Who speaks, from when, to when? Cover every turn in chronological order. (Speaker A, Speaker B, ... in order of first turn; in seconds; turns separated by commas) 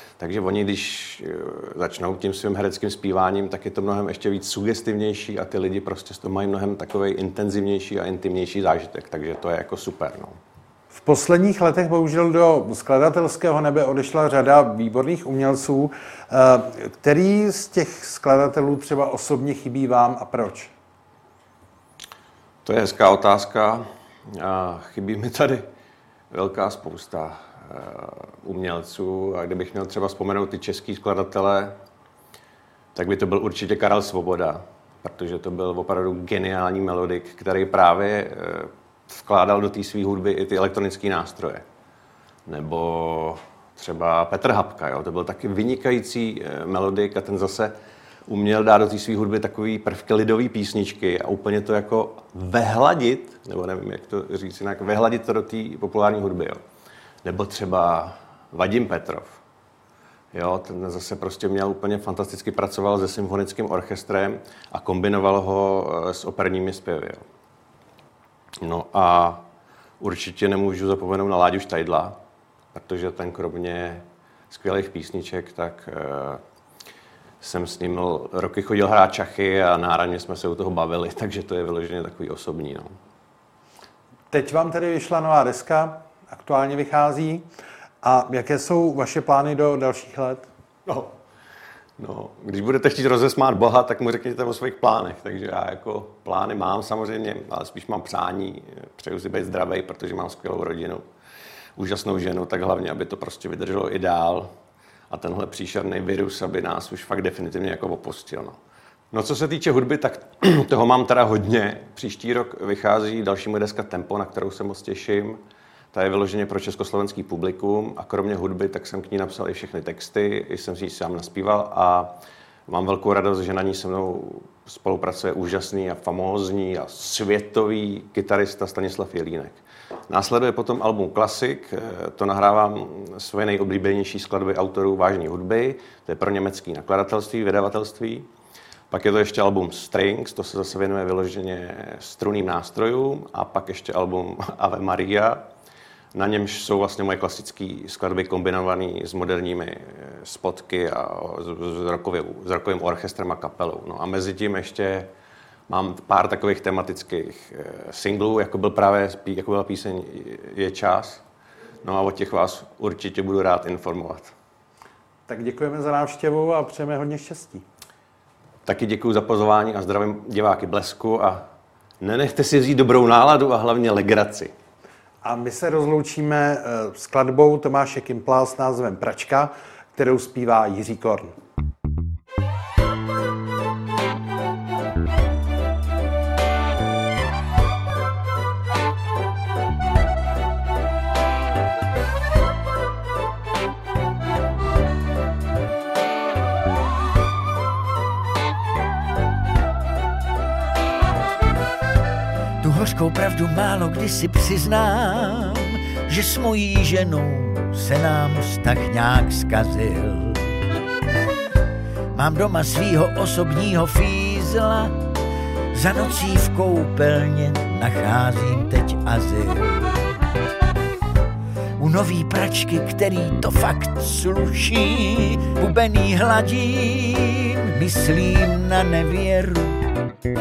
Speaker A: 0.2-10.4, Speaker B: 10.9-20.7, Speaker A: 22.6-25.6, Speaker A: 26.3-31.8, Speaker A: 32.9-41.6, Speaker A: 42.5-47.7, Speaker A: 48.3-56.6, Speaker A: 57.2-59.4, Speaker A: 60.3-67.2, Speaker A: 68.6-69.4, Speaker A: 70.0-72.2, Speaker A: 72.7-76.4, Speaker A: 77.4-82.9, Speaker B: 84.3-87.5, Speaker B: 88.0-90.5, Speaker A: 90.8-91.1, Speaker A: 92.0-101.0, Speaker A: 101.8-104.5, Speaker A: 105.1-108.6, Speaker A: 109.1-115.4, Speaker A: 115.9-122.2, Speaker A: 122.7-138.3, Speaker A: 138.9-145.4, Speaker A: 146.1-155.1, Speaker A: 155.7-161.2, Speaker A: 161.8-164.3, Speaker B: 165.3-167.6, Speaker A: 168.7-171.4, Speaker A: 172.0-174.5, Speaker B: 175.2-181.3, Speaker C: 202.6-210.6, Speaker C: 212.1-214.9, Speaker C: 215.7-220.2, Speaker C: 221.8-229.8